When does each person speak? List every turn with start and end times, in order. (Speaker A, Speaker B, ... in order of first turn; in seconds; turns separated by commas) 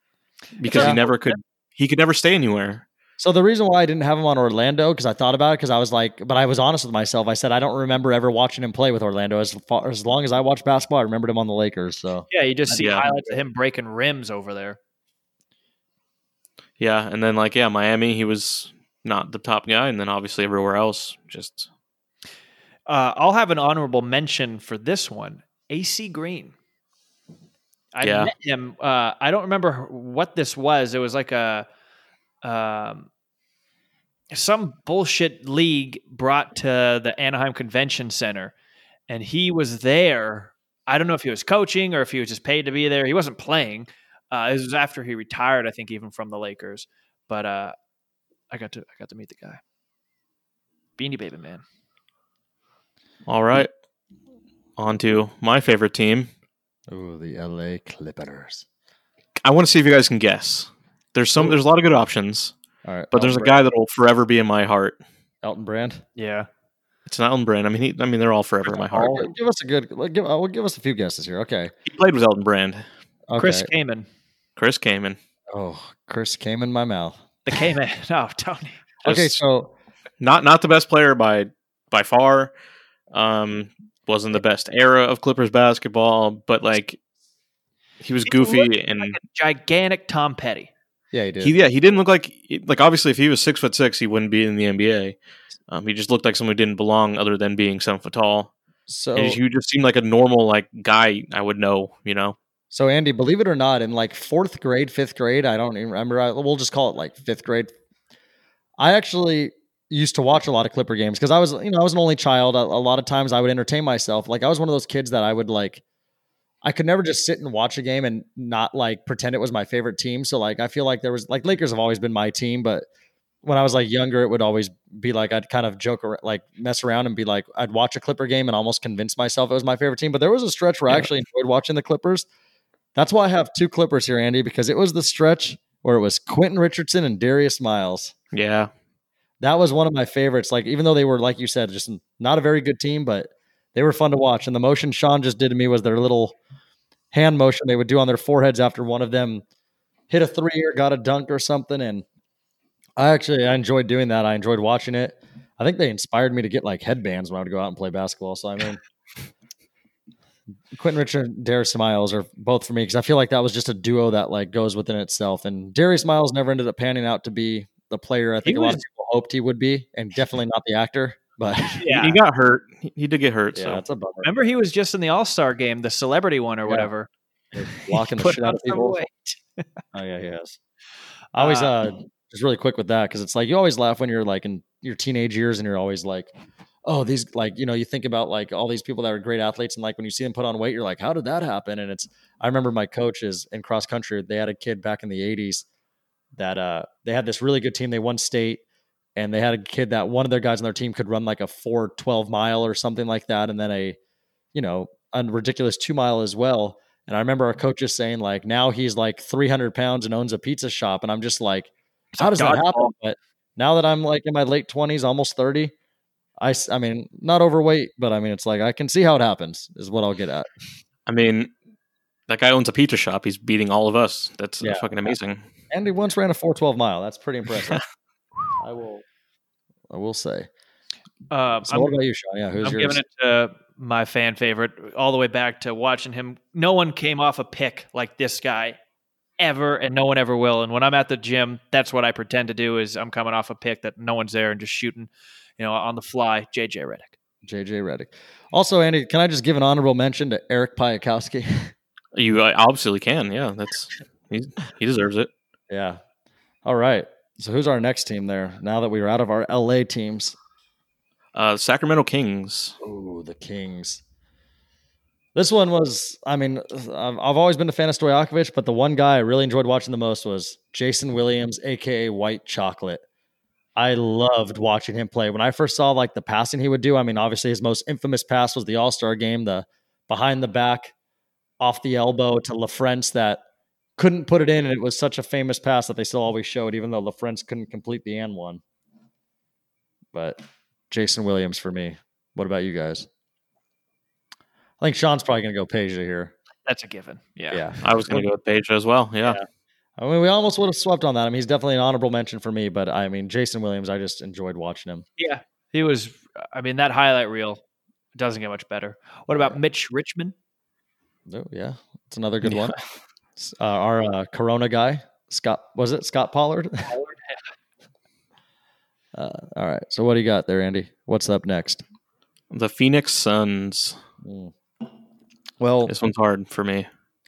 Speaker A: 0.6-2.9, Speaker B: 0.6-1.4, Speaker C: 0.7-1.0, Speaker C: 3.2-12.3, Speaker B: 12.3-14.8, Speaker A: 12.7-13.1, Speaker A: 16.8-21.7, Speaker B: 22.9-26.6, Speaker B: 27.9-31.7, Speaker A: 28.0-28.3, Speaker B: 32.4-33.1, Speaker B: 34.3-38.5, Speaker B: 39.1-47.8, Speaker B: 48.5-49.6, Speaker B: 51.0-51.6, Speaker A: 53.3-53.7, Speaker A: 54.8-56.3, Speaker C: 56.9-58.6, Speaker A: 59.4-62.5, Speaker C: 62.9-63.6, Speaker A: 63.1-65.0, Speaker C: 65.4-66.0, Speaker B: 66.2-66.5, Speaker A: 67.1-69.3, Speaker C: 68.7-71.7, Speaker A: 71.9-72.9, Speaker C: 73.3-73.7, Speaker B: 73.4-74.1, Speaker A: 74.6-75.2, Speaker C: 75.5-77.2, Speaker B: 77.5-78.8, Speaker A: 79.0-79.4, Speaker C: 79.0-79.7, Speaker A: 80.2-82.5, Speaker A: 83.1-87.0, Speaker A: 88.0-89.2, Speaker B: 88.3-90.7, Speaker C: 91.1-91.5, Speaker A: 91.4-95.2, Speaker A: 95.7-98.5, Speaker C: 98.9-99.4, Speaker A: 99.2-102.4, Speaker C: 102.7-107.7, Speaker C: 108.8-115.8, Speaker C: 116.6-122.9, Speaker C: 123.4-132.3, Speaker C: 132.9-138.1, Speaker A: 138.3-138.7, Speaker C: 139.4-146.4, Speaker C: 147.1-149.4, Speaker C: 150.1-152.1, Speaker C: 153.0-158.8, Speaker C: 160.7-171.9, Speaker B: 168.4-168.8, Speaker B: 171.8-172.2, Speaker A: 171.9-173.8, Speaker C: 173.6-174.3, Speaker B: 174.2-177.1, Speaker C: 176.7-176.9, Speaker C: 177.5-179.0, Speaker B: 177.7-179.7, Speaker C: 179.9-180.6, Speaker C: 181.3-186.3, Speaker B: 181.4-181.8, Speaker C: 186.8-195.7, Speaker C: 196.3-198.6, Speaker C: 199.2-204.0, Speaker C: 204.5-215.7, Speaker B: 212.2-212.9, Speaker C: 216.4-220.5, Speaker A: 221.1-221.5, Speaker A: 222.3-225.4, Speaker C: 224.6-224.9, Speaker C: 225.7-227.8, Speaker C: 228.6-229.0, Speaker C: 229.9-230.5, Speaker B: 231.3-231.9, Speaker C: 231.6-233.0, Speaker B: 232.6-238.8, Speaker B: 239.4-247.1, Speaker C: 247.4-251.7, Speaker A: 252.1-255.3, Speaker C: 255.7-256.0, Speaker C: 256.6-260.4, Speaker A: 261.3-262.8, Speaker C: 262.8-264.0, Speaker C: 265.4-273.0, Speaker C: 273.8-280.9, Speaker C: 281.6-283.4, Speaker C: 284.0-288.6, Speaker C: 290.1-293.1, Speaker C: 294.8-296.3, Speaker B: 296.7-297.8, Speaker C: 297.5-298.3, Speaker A: 297.8-299.4, Speaker C: 300.0-305.1, Speaker B: 305.2-307.6, Speaker B: 308.1-310.4, Speaker C: 311.3-312.8, Speaker A: 312.5-312.8, Speaker C: 313.4-316.9, Speaker B: 316.9-317.4, Speaker C: 319.1-321.8, Speaker A: 322.5-324.0, Speaker C: 324.2-324.5, Speaker C: 325.6-325.9, Speaker A: 325.9-326.9